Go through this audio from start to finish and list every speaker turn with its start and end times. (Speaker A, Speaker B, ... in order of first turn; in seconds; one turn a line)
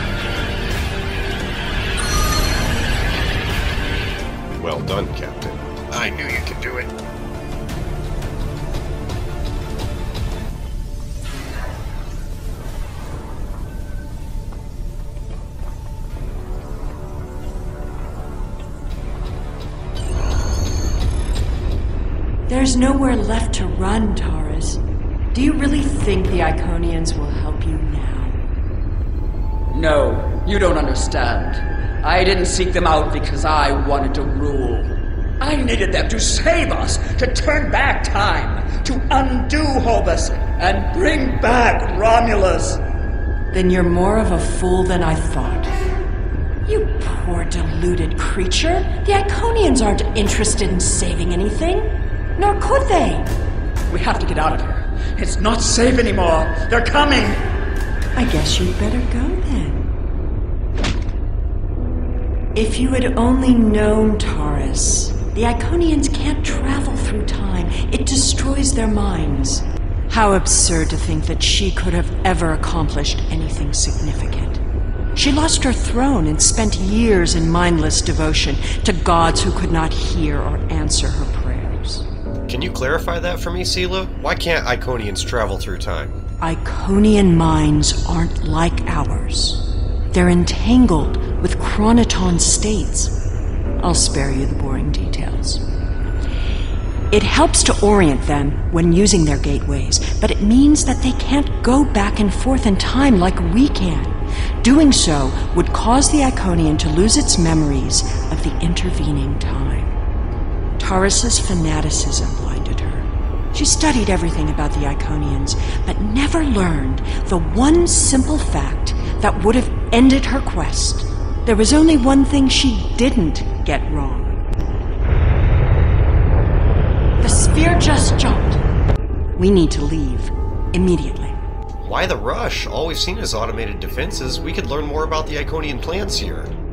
Speaker A: 4.5-6.9
Speaker B: 22.5-24.8
Speaker B: 25.3-28.4
Speaker C: 29.7-42.8
Speaker B: 43.5-45.8
Speaker B: 46.7-53.3
Speaker C: 53.9-57.4
Speaker B: 58.2-59.9
Speaker B: 62.5-74.6
Speaker B: 75.2-82.0
Speaker A: 82.5-86.2
Speaker B: 86.4-93.2
Speaker B: 93.8-95.6
Speaker B: 97.1-110.0
Speaker B: 110.8-124.4
Speaker B: 127.2-128.6
Speaker B: 129.4-131.4
Speaker A: 131.8-136.5